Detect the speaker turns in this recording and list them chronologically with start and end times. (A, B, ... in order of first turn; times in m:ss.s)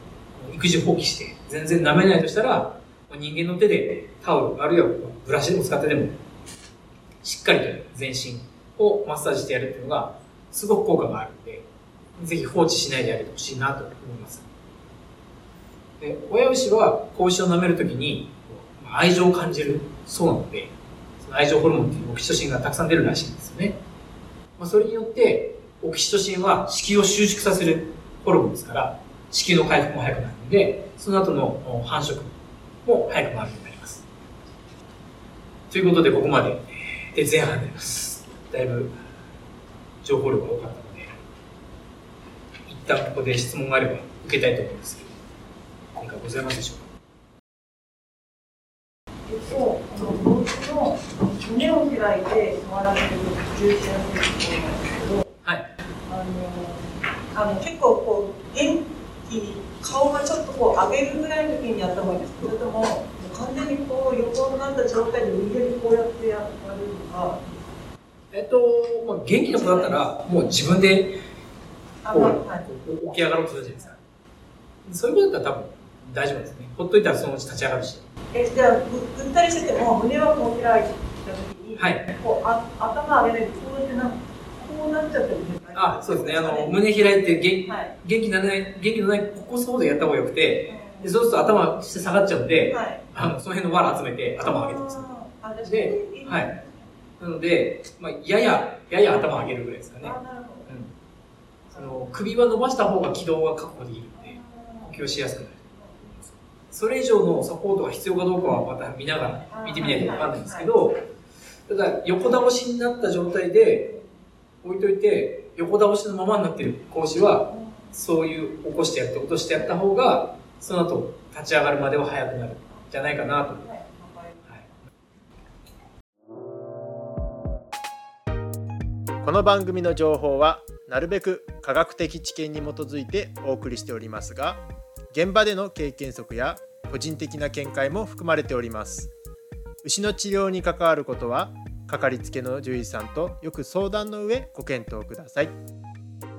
0:00.3-0:06.2 A
0:07.2-0:11.6 A
0:12.2-0:14.4 A
0:16.0-0:23.8 A
0:24.6-0:34.0 A
0:35.7-0:39.0 A
0:40.0-0:41.1 A
0:42.7-0:45.2 A
0:45.9-0:46.9 A
0:49.3-0:55.2 B
0:55.4-0:55.7 A
0:56.1-1:07.4 B
1:08.3-1:11.1 A
1:09.5-1:10.0 B
1:12.0-1:12.6 B
1:12.1-1:14.0 A
1:14.8-1:18.0 A
1:18.3-1:26.7 B
1:21.8-1:22.1 A
1:25.7-1:35.0 A
1:27.6-1:27.9 B
1:30.7-1:31.1 B
1:32.7-1:33.0 B
1:34.4-1:36.8 B
1:35.6-1:36.5 A
1:37.2-1:40.9 A
1:40.0-1:40.7 B
1:41.7-1:51.0 A
1:44.2-1:44.9 B
1:49.5-1:50.7 B
1:51.7-1:53.9 A
1:54.6-2:03.7 A
1:57.5-1:57.9 B
2:03.6-2:04.5 B
2:09.2-2:14.6 C
2:15.1-2:19.1 C
2:19.8-2:25.5 C